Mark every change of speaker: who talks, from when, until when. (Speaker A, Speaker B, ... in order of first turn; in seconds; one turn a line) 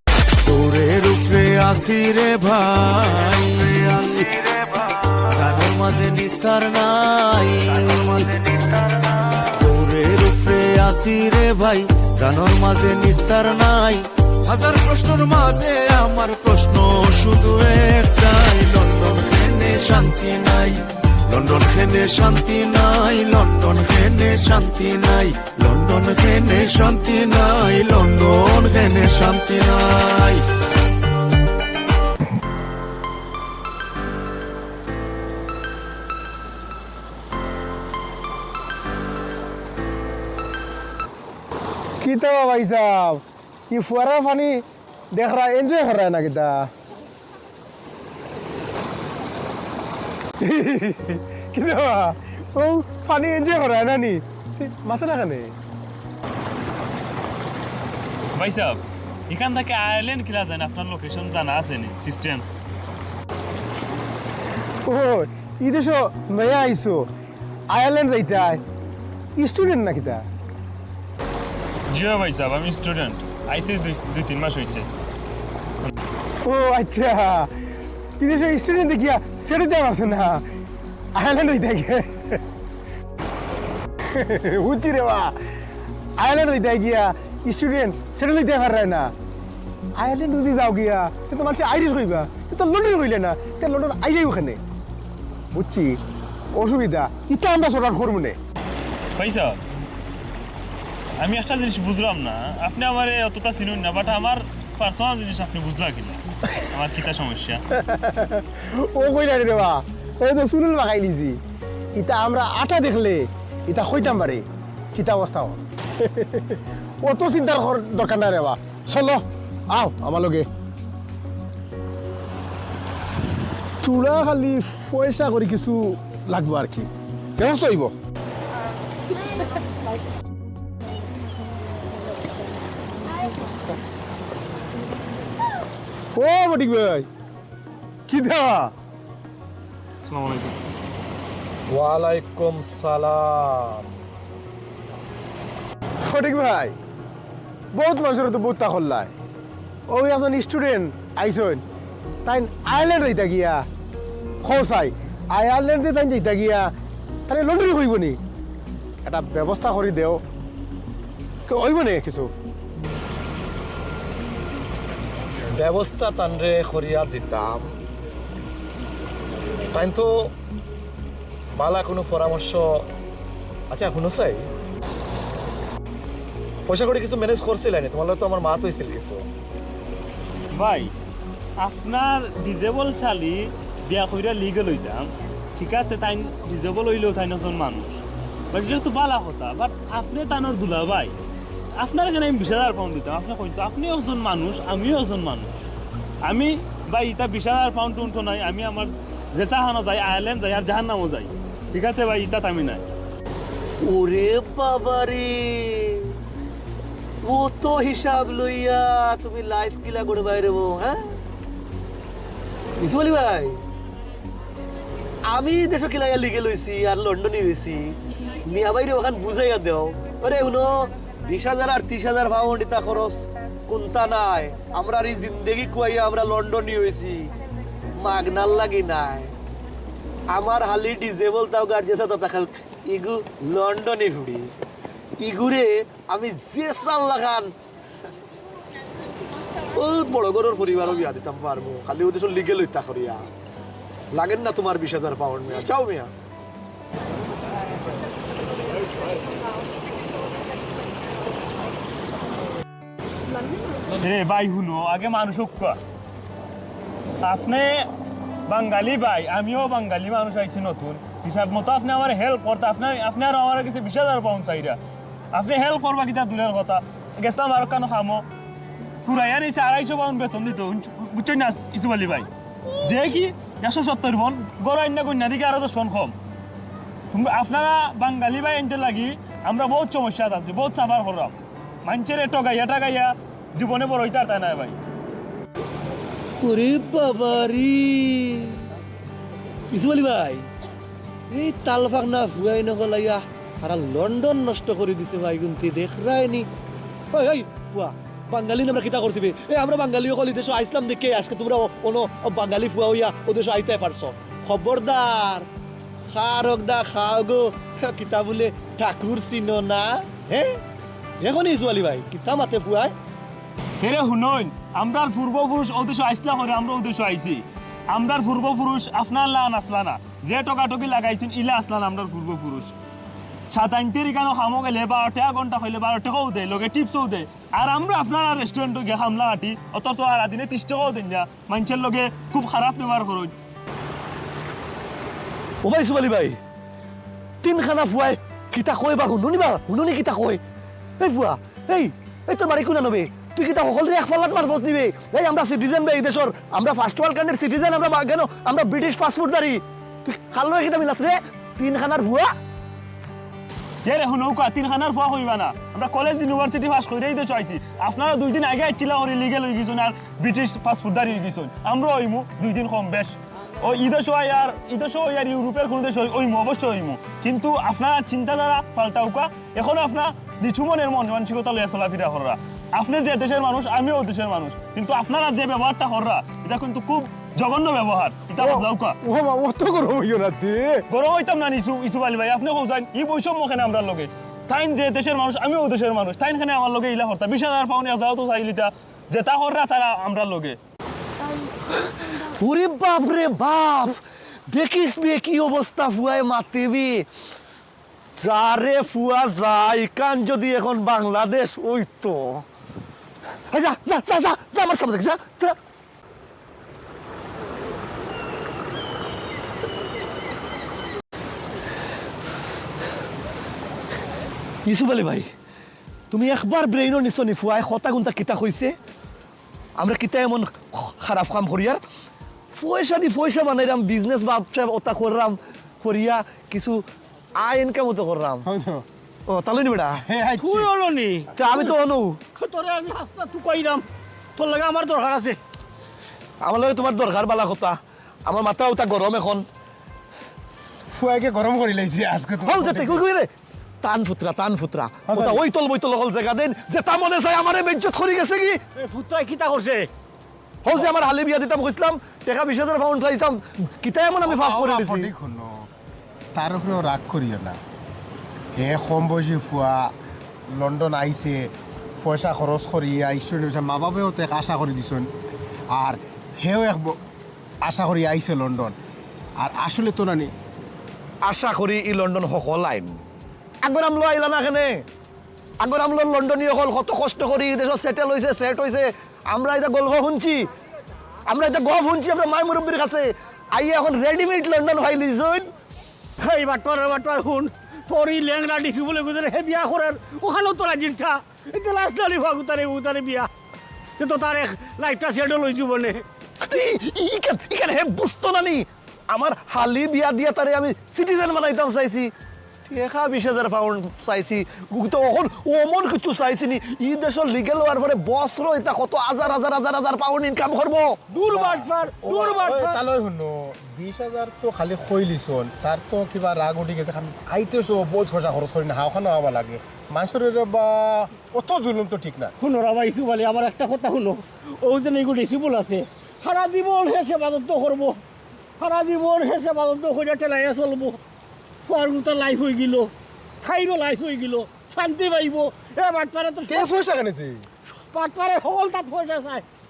Speaker A: 0.4-4.7
Speaker A: 5.3-30.4
Speaker B: 42.0-46.7
Speaker B: 50.4-55.6
Speaker C: 58.4-62.4
Speaker B: 64.8-67.1
Speaker B: 67.7-68.6
Speaker B: 69.4-70.2
Speaker C: 71.9-74.9
Speaker B: 76.4-77.5
Speaker B: 78.2-80.4
Speaker B: 81.2-82.4
Speaker B: 84.1-85.3
Speaker B: 86.2-89.1
Speaker B: 90.0-94.6
Speaker B: 95.5-96.0
Speaker B: 96.6-98.4
Speaker C: 99.2-99.6
Speaker C: 101.2-107.6
Speaker B: 107.7-111.4
Speaker B: 112.0-120.5
Speaker B: 123.8-127.9
Speaker B: 136.2-137.1
Speaker B: 138.1-138.7
Speaker C: 140.0-140.6
Speaker D: 141.7-143.9
Speaker B: 146.0-146.8
Speaker B: 147.7-149.1
Speaker B: 149.9-151.6
Speaker B: 152.2-153.6
Speaker B: 154.4-156.7
Speaker B: 157.3-158.2
Speaker B: 159.0-160.2
Speaker B: 161.5-162.3
Speaker D: 165.5-167.7
Speaker D: 169.7-170.3
Speaker D: 171.6-172.9
Speaker D: 173.7-174.5
Speaker D: 176.7-179.3
Speaker C: 180.5-180.9
Speaker C: 181.6-191.2
Speaker C: 191.8-195.5
Speaker C: 196.2-202.8
Speaker D: 203.8-206.1
Speaker D: 207.2-211.1
Speaker D: 212.8-213.6
Speaker D: 215.2-227.3
Speaker D: 228.0-229.3
Speaker D: 230.3-234.5
Speaker D: 235.2-237.5
Speaker D: 239.6-243.3
Speaker D: 244.1-246.1
Speaker C: 253.9-255.8
Speaker C: 257.2-257.9
Speaker C: 258.5-264.8
Speaker C: 265.3-268.2
Speaker C: 269.0-272.3
Speaker C: 272.8-276.1
Speaker C: 277.1-284.8
Speaker D: 286.4-288.6
Speaker D: 289.7-290.5
Speaker D: 291.3-296.5
Speaker D: 297.1-305.5
Speaker D: 306.1-310.6
Speaker D: 311.2-312.9
Speaker C: 313.8-322.8
Speaker C: 323.5-333.3
Speaker D: 335.6-336.4
Speaker D: 337.4-340.4
Speaker D: 341.0-352.3
Speaker C: 353.9-379.0
Speaker B: 378.4-380.9
Speaker C: 380.9-390.6
Speaker D: 392.3-397.1
Speaker D: 398.2-402.4
Speaker D: 403.5-405.6
Speaker D: 414.6-415.3
Speaker D: 416.1-418.8
Speaker D: 419.8-421.8
Speaker D: 422.5-426.9
Speaker D: 427.4-428.5
Speaker B: 428.4-428.9
Speaker D: 429.3-430.0
Speaker B: 430.0-430.7
Speaker E: 430.4-431.7
Speaker D: 431.4-432.2
Speaker E: 432.4-435.4
Speaker D: 436.4-439.5
Speaker B: 440.9-443.0
Speaker D: 442.4-443.3
Speaker D: 443.8-448.6
Speaker B: 445.1-445.4
Speaker E: 448.8-449.9
Speaker D: 450.6-455.1
Speaker B: 454.2-455.7
Speaker B: 456.3-457.6
Speaker B: 458.6-459.9
Speaker B: 460.5-465.1
Speaker B: 465.7-467.0
Speaker B: 467.6-468.8
Speaker B: 469.4-470.3
Speaker D: 471.2-473.0
Speaker D: 473.6-474.9
Speaker D: 475.6-480.5
Speaker D: 481.3-485.5
Speaker E: 486.2-493.3
Speaker E: 494.0-496.0
Speaker D: 496.4-502.1
Speaker D: 502.7-512.4
Speaker E: 511.1-512.8
Speaker B: 512.0-522.3
Speaker E: 522.4-528.0
Speaker E: 528.6-531.0
Speaker E: 531.6-536.7
Speaker B: 536.5-537.5
Speaker E: 537.7-539.5